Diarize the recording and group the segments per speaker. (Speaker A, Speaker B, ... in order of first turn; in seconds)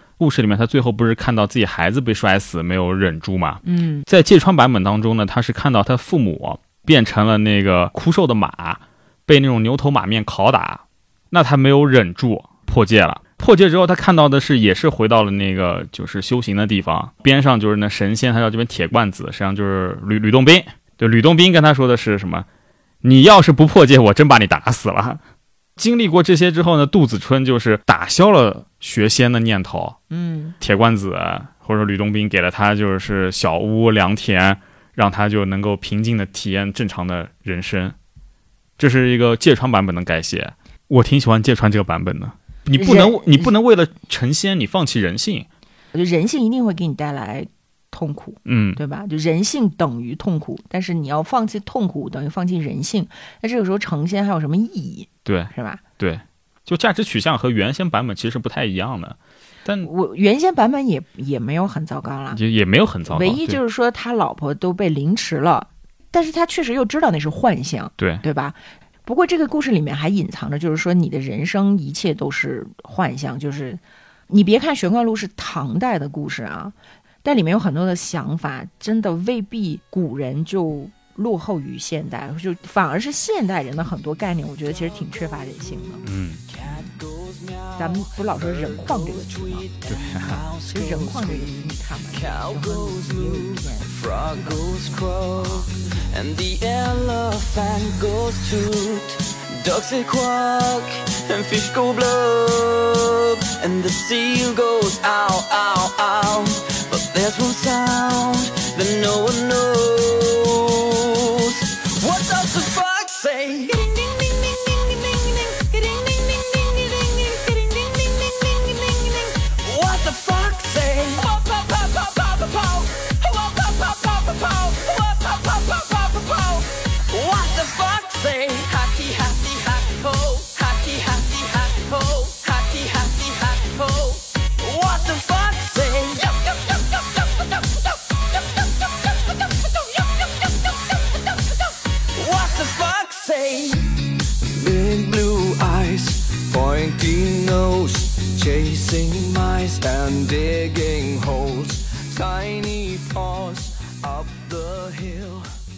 Speaker A: 0.2-22.5, 23.0-25.2, 25.8-30.0, 30.6-38.0, 38.8-45.5, 48.5-48.8, 55.2-59.9, 62.3-63.6, 86.0-86.4, 89.9-90.4
Speaker B: 3.6-4.1, 30.1-30.6, 42.8-43.5, 45.9-55.8, 59.8-62.4, 63.1-86.0, 87.8-89.7, 90.7-95.0
Speaker C: 86.5-155.5